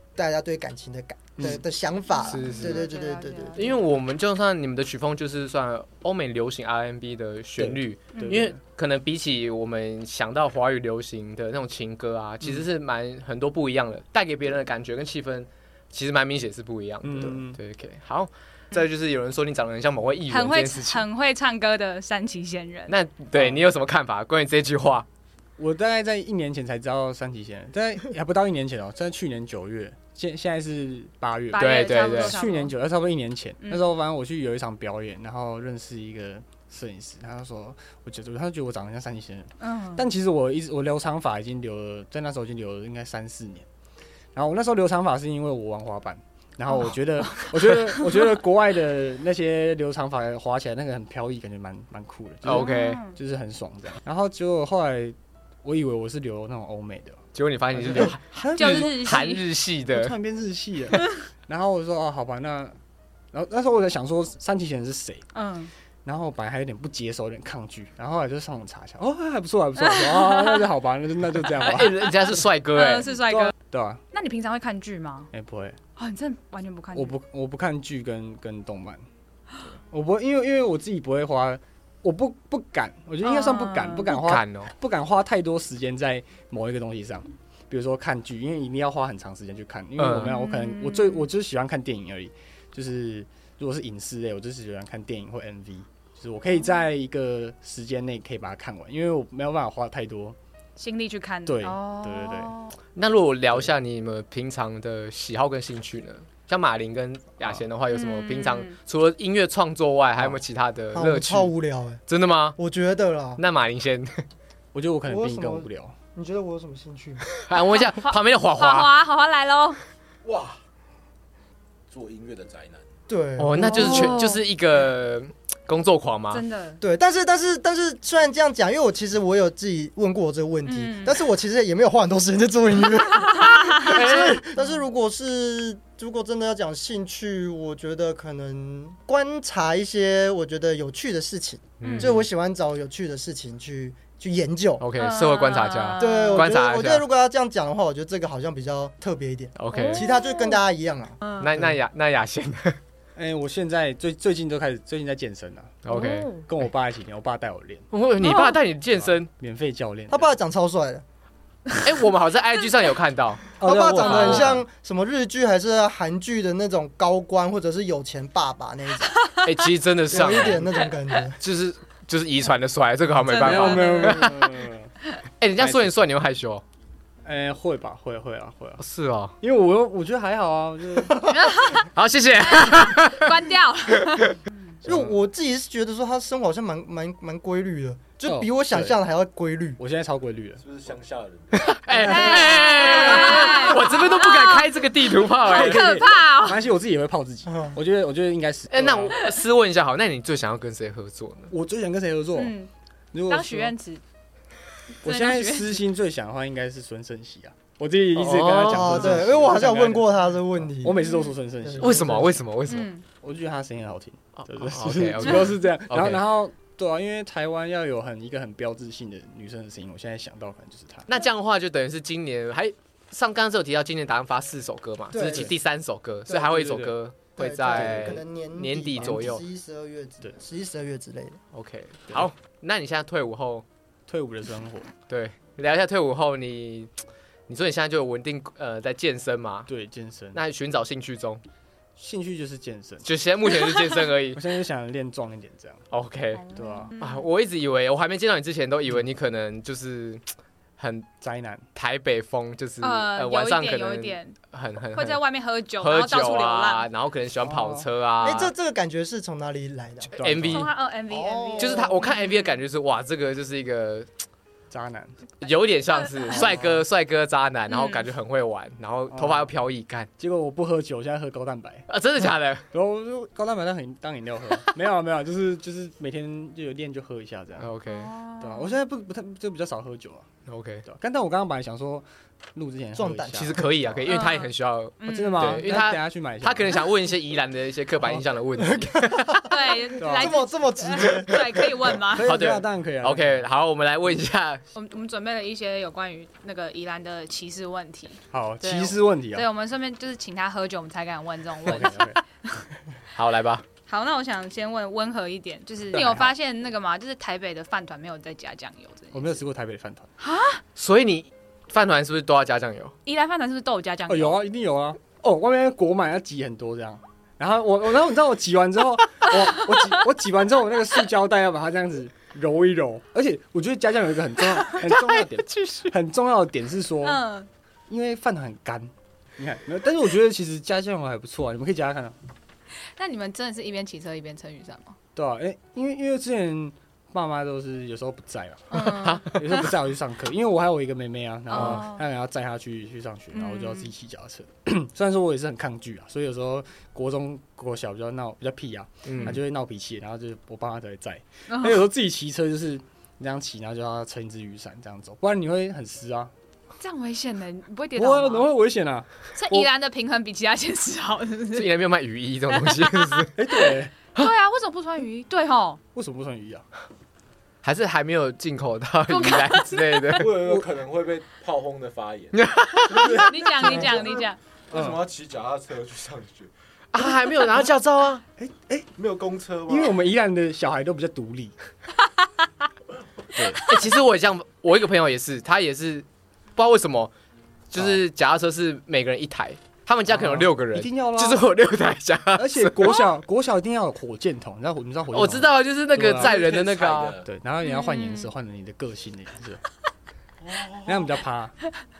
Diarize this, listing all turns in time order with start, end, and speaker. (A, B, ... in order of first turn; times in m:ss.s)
0:00.2-0:03.7 A
0:01.4-0:01.6 B
0:02.1-0:03.8 C
0:02.2-0:02.9 D
0:03.6-0:21.0 D
0:07.6-0:08.6 B
0:08.1-0:08.4 C
0:17.0-0:17.6 B
0:20.3-0:22.9 C
0:22.9-0:25.0 D
0:23.3-0:23.6 B
0:25.6-0:43.7 B
0:31.5-0:32.7 C
0:31.5-0:32.4 D
0:39.6-0:40.1 C
0:44.3-0:57.2 B
0:46.9-0:48.2 C
0:52.4-0:53.0 D
0:52.5-0:53.2 C
0:57.3-1:00.1 D
0:57.7-0:59.2 B
0:58.6-0:59.4 C
0:59.9-1:02.8 B
1:03.3-1:05.2 B
1:05.3-1:05.7 C
1:06.0-1:12.1 B
1:09.8-1:10.6 C
1:11.6-1:13.1 D
1:12.7-1:13.5 C
1:13.3-1:14.0 B
1:14.1-1:15.3 C
1:15.3-1:15.8 B
1:16.0-1:17.2 C
1:16.9-1:19.0 B
1:19.9-1:40.4 B
1:23.2-1:24.2 C
1:24.1-1:24.7 D
1:30.0-1:30.3 D
1:30.2-1:31.3 C
1:40.8-1:42.7 C
1:41.4-1:42.6 B
1:43.0-1:51.5 D
1:47.9-1:48.8 C
1:50.9-1:52.0 A
1:52.1-1:52.6 D
1:52.6-1:53.4 A
1:53.4-1:54.2 D
1:54.7-1:55.9 B
1:55.1-1:57.3 A
1:57.3-1:58.9 D
1:57.9-1:59.8 C
2:00.2-2:00.6 E
2:01.9-2:02.8 E
2:03.1-2:04.2 A
2:03.4-2:06.4 D
2:03.6-2:04.4 C
2:06.3-2:06.8 C
2:06.8-2:24.8 A
2:10.6-2:11.2 C
2:13.4-2:14.6 C
2:13.8-2:14.4 D
2:21.8-2:22.3 D
2:21.8-2:22.1 C
2:24.8-2:27.0 D
2:25.0-2:26.5 C
2:26.0-2:31.2 A
2:29.5-2:30.1 D
2:29.7-2:30.6 C
2:31.2-2:31.5 C
2:31.4-2:32.8 D
2:33.2-2:37.9 B
2:35.8-2:36.6 D
2:35.9-2:36.4 C
2:37.9-2:39.3 D
2:38.2-2:38.6 C
2:38.9-2:40.3 B
2:40.1-2:41.0 A
2:41.8-2:44.6 D
2:43.6-2:44.6 B
2:43.6-2:49.2 A
2:49.4-2:50.8 D
2:50.1-2:51.4 A
2:51.4-2:54.4 D
2:53.3-2:54.4 C
2:53.3-2:54.9 B
2:55.4-2:56.6 D
2:55.6-2:56.0 B
2:57.2-2:58.8 B
2:58.8-2:59.3 D
2:59.4-3:01.4 B
3:01.2-3:01.9 C
3:01.9-3:04.3 D
3:02.4-3:04.4 C
3:04.8-3:05.1 B
3:04.8-3:09.8 A
3:08.2-3:09.0 B
3:09.8-3:10.6 B
3:10.6-3:11.8 E
3:11.5-3:15.9 D
3:11.9-3:14.7 C
3:11.9-3:13.6 B
3:15.4-3:16.6 C
3:15.4-3:19.2 B
3:17.5-3:17.8 A
3:18.7-3:21.5 D
3:21.5-3:22.5 B
3:22.3-3:22.7 C
3:23.1-3:23.7 B
3:23.3-3:24.0 C
3:25.0-3:25.8 C
3:25.0-3:32.4 B
3:28.1-3:29.3 D
3:28.6-3:31.0 A
3:30.9-3:31.4 C
3:31.6-3:32.2 A
3:31.8-3:32.9 D
3:32.7-3:33.0 C
3:33.2-3:41.0 B
3:34.4-3:36.2 D
3:41.1-3:49.4 D
3:45.1-3:45.5 A
3:46.3-3:46.9 B
3:47.4-3:51.4 A
3:47.7-3:48.2 B
3:51.5-3:53.6 D
3:54.1-3:54.9 B
3:55.1-3:56.9 D
3:57.5-3:59.7 D
3:59.7-4:00.4 B
4:00.3-4:01.4 D
4:02.0-4:03.5 B
4:03.0-4:04.4 D
4:04.3-4:05.8 B
4:05.9-4:06.4 D
4:06.4-4:07.2 C
4:06.5-4:06.9 B
4:07.0-4:10.2 D
4:10.8-4:11.1 D
4:11.2-4:11.6 B
4:11.7-4:15.2 D
4:12.8-4:14.4 C
4:14.9-4:16.9 C
4:15.8-4:18.5 D
4:17.4-4:17.9 B
4:18.2-4:20.1 A
4:20.1-4:20.7 D
4:20.1-4:20.7 B
4:20.4-4:22.4 C
4:21.1-4:22.0 A
4:21.6-4:24.1 D
4:24.7-4:25.1 B
4:25.4-4:30.1 D
4:26.3-4:26.8 B
4:27.7-4:28.1 C
4:29.1-4:29.5 B
4:30.2-4:31.8 B
4:31.9-4:32.6 D
4:32.7-4:37.7 B
4:37.6-4:38.1 D
4:37.8-4:38.8 C
4:38.4-4:40.3 B
4:40.4-4:40.8 D
4:40.8-4:44.0 B
4:42.9-4:43.7 A
4:43.3-4:49.5 D
4:44.1-4:45.7 C
4:45.0-4:46.8 B
4:48.6-4:51.7 A
4:49.4-4:52.3 C
4:50.0-4:50.4 B
4:52.0-4:53.4 B
4:52.2-4:54.6 D
4:54.7-5:02.6 C
4:58.3-4:59.5 B
5:01.6-5:02.2 B
5:03.1-5:03.6 D
5:03.9-5:09.4 C
5:05.9-5:06.3 B
5:09.1-5:10.1 B
5:10.2-5:10.6 C
5:10.7-5:12.9 D
5:13.0-5:14.4 C
5:14.1-5:27.2 B
5:25.1-5:25.9 D
5:27.0-5:27.5 C
5:27.9-5:32.2 B
5:32.8-5:35.0 C
5:35.1-5:56.3 B
5:38.7-5:39.7 C
5:38.8-5:39.4 D
5:41.5-5:42.0 C
5:41.6-5:41.8 D
5:43.3-5:43.9 C
5:49.0-5:49.4 D
5:51.5-5:51.8 C
5:56.8-5:58.5 C
5:58.0-5:59.7 B
5:59.3-6:01.7 C
6:01.5-6:03.4 D
6:02.6-6:03.2 C
6:03.4-6:03.9 B
6:04.2-6:05.8 C
6:05.9-6:06.6 B
6:07.6-6:10.3 D
6:09.1-6:10.0 C
6:10.2-6:12.4 E
6:10.4-6:10.6 B
6:12.3-6:13.3 D
6:12.9-6:14.1 B
6:12.9-6:14.4 C
6:13.0-6:16.5 E
6:14.7-6:15.0 B
6:16.9-6:18.2 D
6:18.4-6:18.9 B
6:19.0-6:20.0 E
6:19.7-6:21.6 B
6:23.3-6:23.6 B
6:23.6-6:26.0 D
6:26.6-6:27.1 D
6:27.7-6:33.0 D
6:27.7-6:28.0 B
6:30.1-6:31.5 B
6:32.3-6:36.3 B
6:35.1-6:37.2 D
6:36.1-6:37.3 E
6:37.2-6:39.6 B
6:37.6-6:38.3 C
6:40.4-6:41.1 E
6:40.8-6:41.6 B